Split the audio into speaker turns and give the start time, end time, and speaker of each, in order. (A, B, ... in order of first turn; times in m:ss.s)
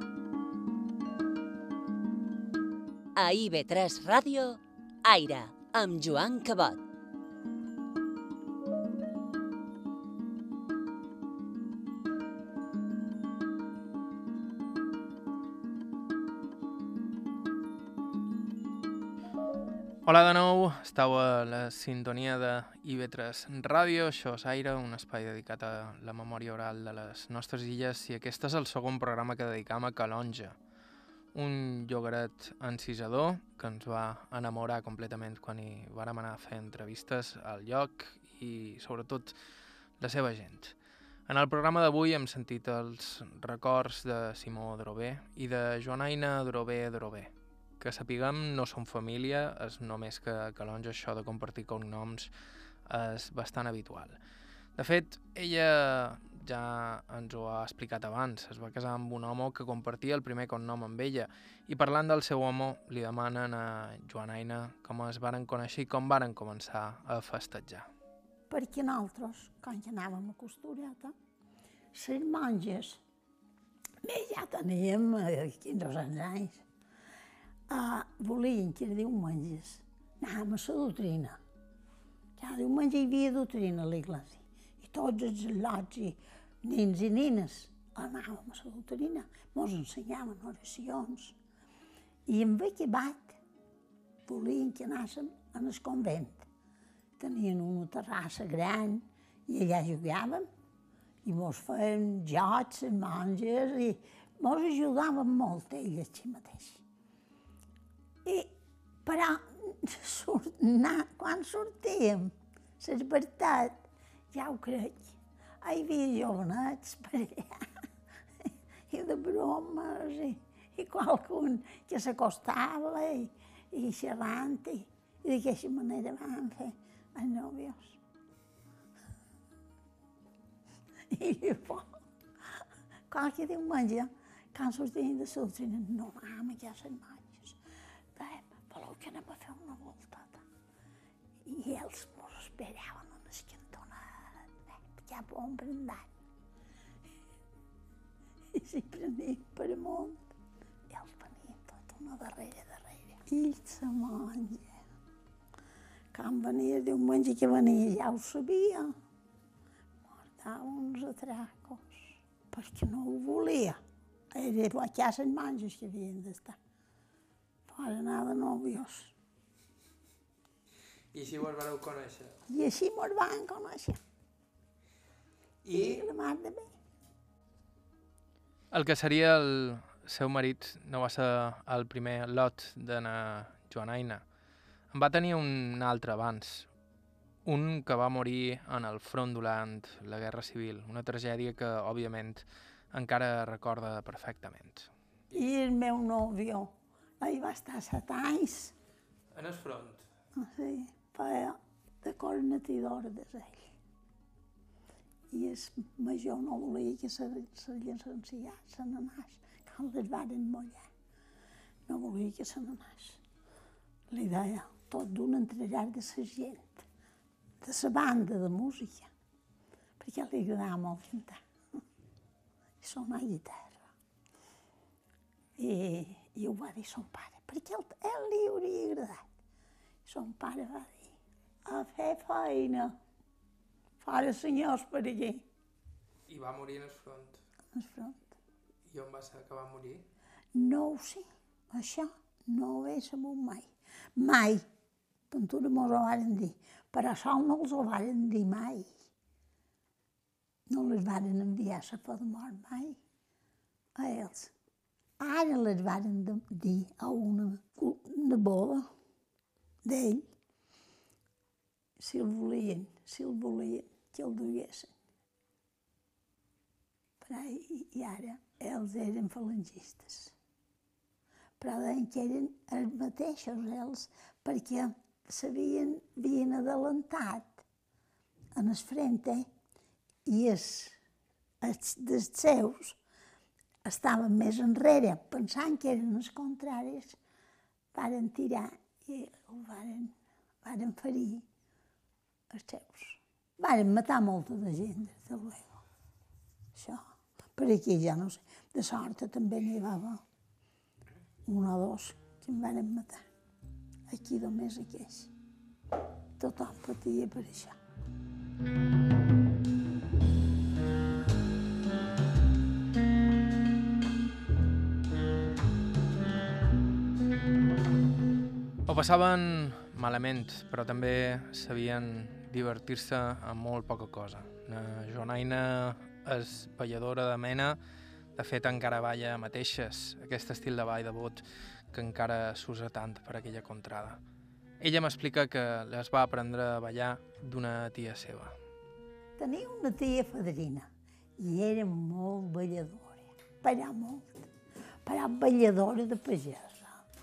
0:03.2-0:06.8 A
0:20.0-0:30.6 B
0:31.3-0:39.4 B
0:40.0-0:40.7 B
0:41.3-0:52.3 B
0:52.8-0:54.2 B
0:54.8-1:07.9 B
1:08.5-1:11.1 C
1:11.9-1:13.0 C
1:14.0-1:16.6 C
1:17.7-1:21.4 C
1:22.4-1:31.4 C
1:32.3-1:33.4 C
1:34.2-1:36.4 C
1:37.2-1:40.5 C
1:41.2-1:46.8 C
1:48.2-1:57.6 C
1:58.4-2:08.0 C
2:11.1-2:11.9 C
2:12.6-2:17.6 C
2:18.1-2:20.4 C
2:21.4-2:26.1 C
2:28.5-2:30.3 C
2:30.9-2:34.7 C
2:36.1-2:38.9 C
2:40.0-2:43.8 C
2:44.3-2:46.6 C
2:47.7-2:49.1 C
2:51.1-2:52.4 B
2:52.5-2:54.0 C
2:55.6-2:56.0 B
2:55.7-2:56.7 C
2:58.7-3:04.2 B
3:04.9-3:06.7 B
3:07.4-3:15.4 B
3:15.3-3:18.7 C
3:19.3-3:20.1 B
3:20.3-3:23.7 C
3:25.3-3:30.9 C
3:31.9-3:33.2 C
3:34.1-3:36.8 C
3:37.6-3:39.1 C
3:40.0-3:41.4 C
3:42.8-3:43.9 C
3:45.6-3:49.3 C
3:50.0-3:51.2 C
3:51.7-3:52.9 C
3:54.0-3:55.4 C
3:56.3-3:57.4 B
3:57.7-3:58.3 C
3:58.9-4:00.0 B
4:00.5-4:04.6 C
4:05.3-4:08.9 C
4:10.7-4:13.0 C
4:14.0-4:14.5 C
4:15.2-4:18.9 C
4:19.8-4:20.3 C
4:22.0-4:24.9 C
4:27.2-4:30.3 C
4:31.6-4:37.6 C
4:38.5-4:39.5 C
4:40.2-4:40.9 C
4:41.6-4:43.0 C
4:43.8-4:47.2 C
4:47.9-4:51.4 C
4:52.5-4:55.8 C
4:56.7-4:57.0 C
4:57.5-5:00.2 C
5:01.5-5:03.2 C
5:04.1-5:05.3 C
5:06.4-5:07.8 C
5:18.9-5:27.8 B
5:28.4-5:34.2 B
5:34.8-5:38.5 B
5:39.4-5:44.5 C
5:45.0-5:47.0 C